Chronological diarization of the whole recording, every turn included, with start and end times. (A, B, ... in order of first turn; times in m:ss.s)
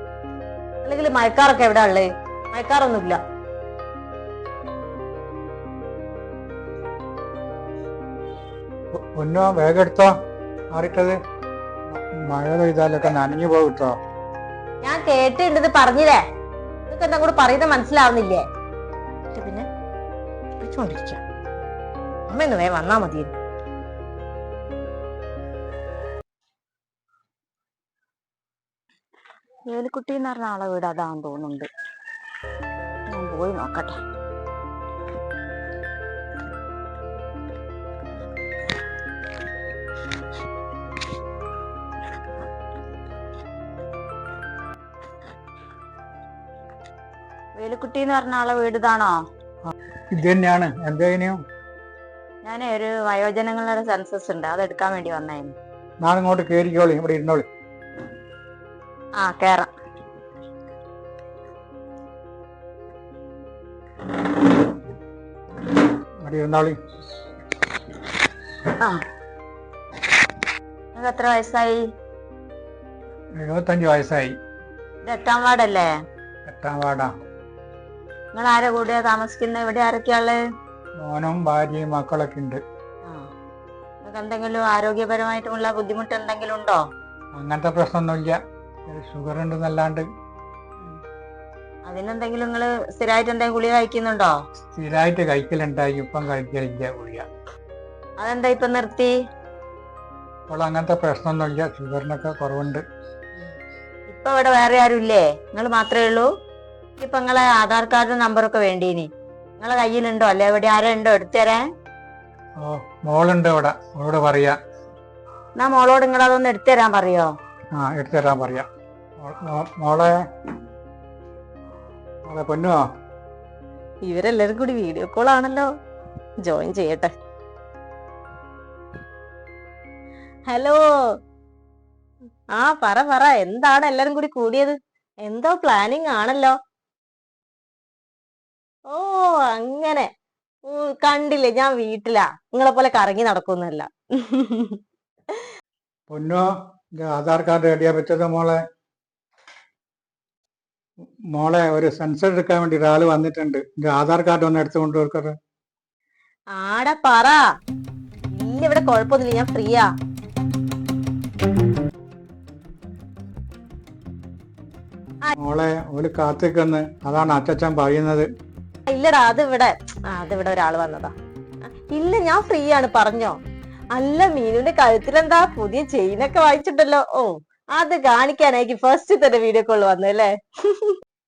0:00.8-0:03.2 A
0:09.0-0:10.1 B
0:10.7-0:11.2 B
0:11.9-0:13.9 B
0:14.8-0:16.2 A
0:16.9-0:18.4 A
0:19.3-0:19.7 A
0:20.6-0:21.2 A
0:22.3-0:23.3 A
0:29.7-0:31.7 C
0:33.1-0:33.9 C
0:47.6-0:49.2 C
0:49.7-0:51.4 B
0:52.4-0:55.5 C
0:56.0-0:57.4 B
0:59.2-0:59.7 C
1:06.2-1:06.8 B
1:08.7-1:09.0 C
1:10.9-1:11.8 C
1:13.4-1:14.4 B
1:15.0-1:15.9 C
1:16.5-1:17.1 B
1:18.3-1:20.4 C
1:21.0-1:22.6 B
1:24.0-1:26.8 C
1:27.4-1:28.3 B
1:28.9-1:30.0 B
1:31.9-1:34.3 C
1:34.8-1:37.2 B
1:38.2-1:39.1 C
1:40.5-1:42.8 B
1:44.1-1:46.3 C
1:47.0-1:49.1 C
1:49.6-1:51.6 C
1:52.6-1:54.6 B
1:55.6-1:57.3 C
1:57.8-1:58.7 B
1:59.2-2:00.2 B
2:02.2-2:02.8 B
2:04.0-2:05.7 A
2:06.4-2:07.1 A
2:10.4-2:10.8 A
2:12.6-2:16.6 A
2:18.9-2:20.1 A
2:20.6-2:24.8 A
2:26.1-2:26.5 B
2:27.0-2:28.6 B
2:31.3-2:35.3 B
2:36.5-2:37.4 A
2:38.3-2:39.9 A
2:45.4-2:48.3 B
2:48.9-2:51.1 A
2:51.9-2:53.4 A
2:53.9-3:00.9 A